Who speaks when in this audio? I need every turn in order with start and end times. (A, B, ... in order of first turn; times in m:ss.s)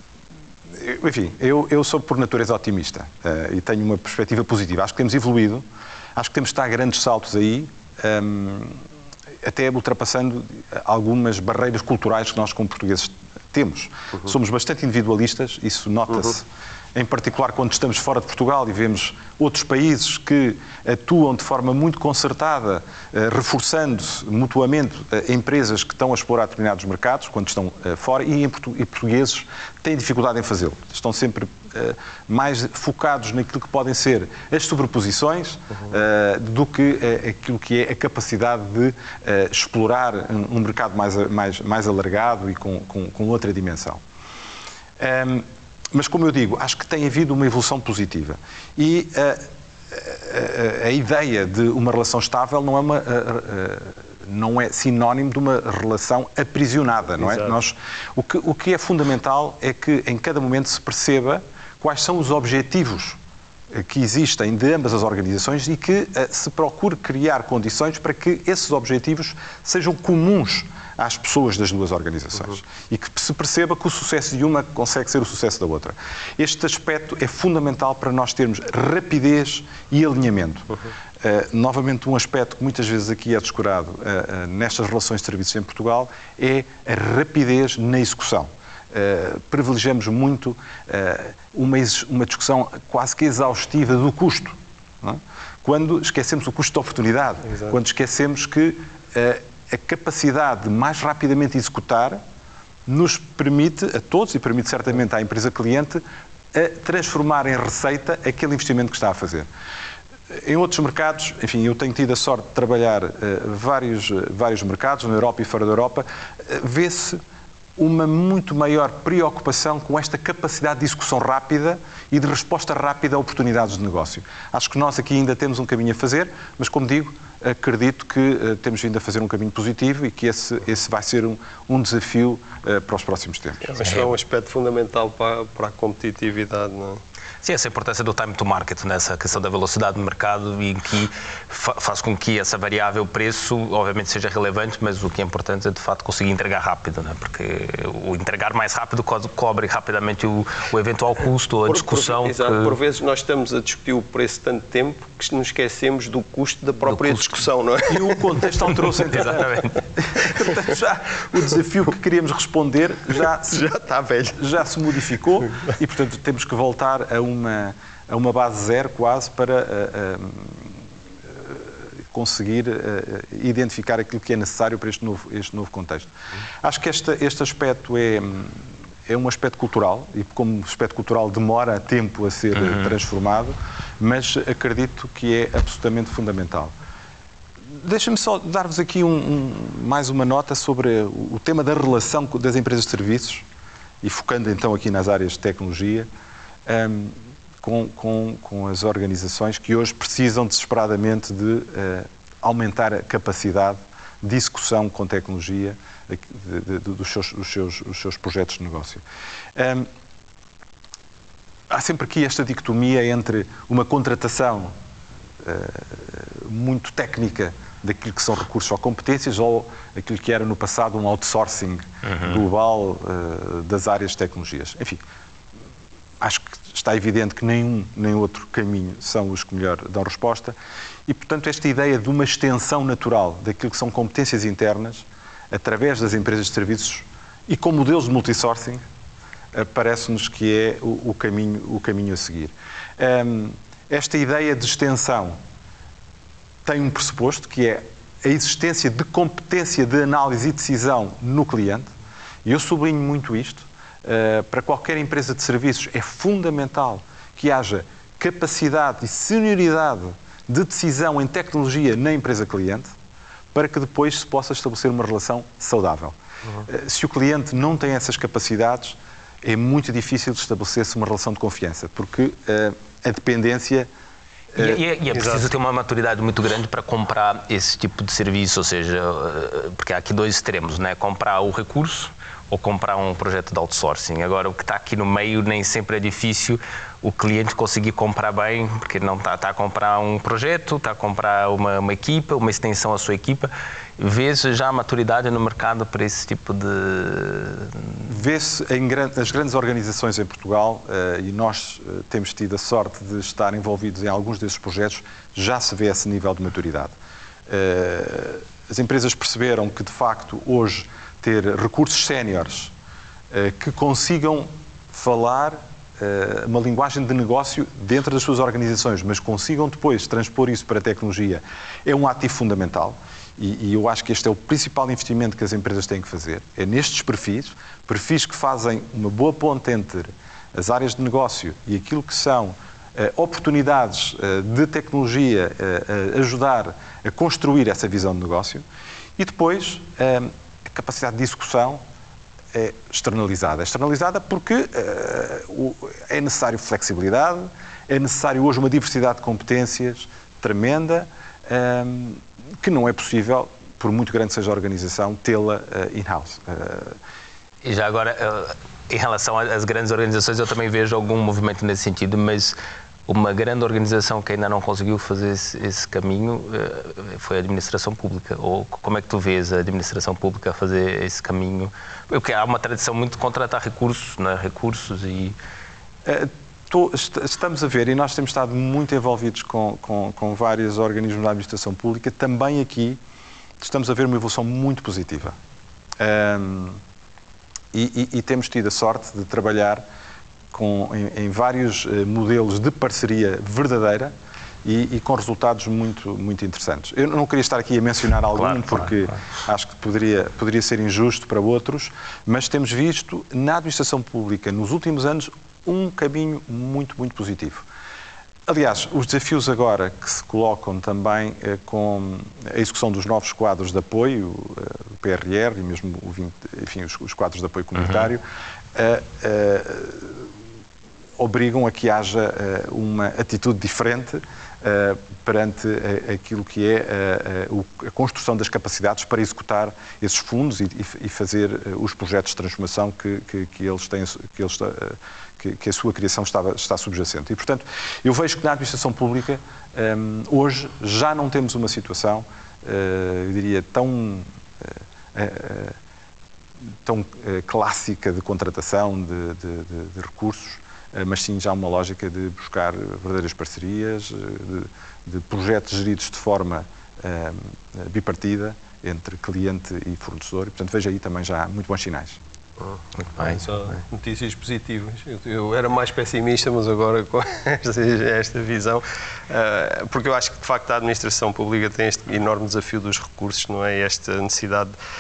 0:00.7-0:05.6 A
0:06.2-0:08.8 A
0:09.4-0:44.0 A
0:45.0-1:03.2 A
0:57.3-0:57.5 B
1:03.7-1:42.2 A
1:42.9-1:49.5 A
1:50.3-1:57.2 A
1:57.8-2:13.7 A
2:13.6-2:17.0 B
2:13.8-2:14.1 C
2:17.4-2:32.8 C
2:31.7-2:38.7 B
2:36.9-2:37.2 C
2:37.9-2:43.7 A
2:39.0-2:39.8 C
2:43.5-2:44.4 B
2:44.4-2:56.1 A
2:56.6-3:06.7 A
3:07.8-3:13.4 A
3:14.0-3:16.1 A
3:16.6-3:29.0 A
3:29.5-3:29.9 A
3:31.7-3:34.7 A
3:35.4-3:45.0 A
3:46.2-3:50.6 A
3:51.1-3:58.8 A
3:59.5-4:05.4 A
4:06.6-4:11.9 A
4:12.4-4:22.9 A
4:23.5-4:33.9 A
4:34.5-4:34.8 A
4:34.6-4:58.0 C
4:35.1-4:35.4 B
4:58.0-5:06.9 A
5:07.5-5:12.7 A
5:13.3-5:38.6 A
5:39.2-5:41.8 A
5:42.5-5:57.0 A
5:57.6-6:15.3 C
6:16.0-6:23.0 A
6:23.6-6:25.4 A
6:26.0-6:26.8 A
6:27.7-6:29.8 A
6:30.5-6:47.6 A
6:38.4-6:38.9 C
6:48.5-7:00.3 A
7:01.2-7:25.8 A
7:26.8-7:42.2 A
7:42.6-7:54.7 B
7:43.0-7:43.8 C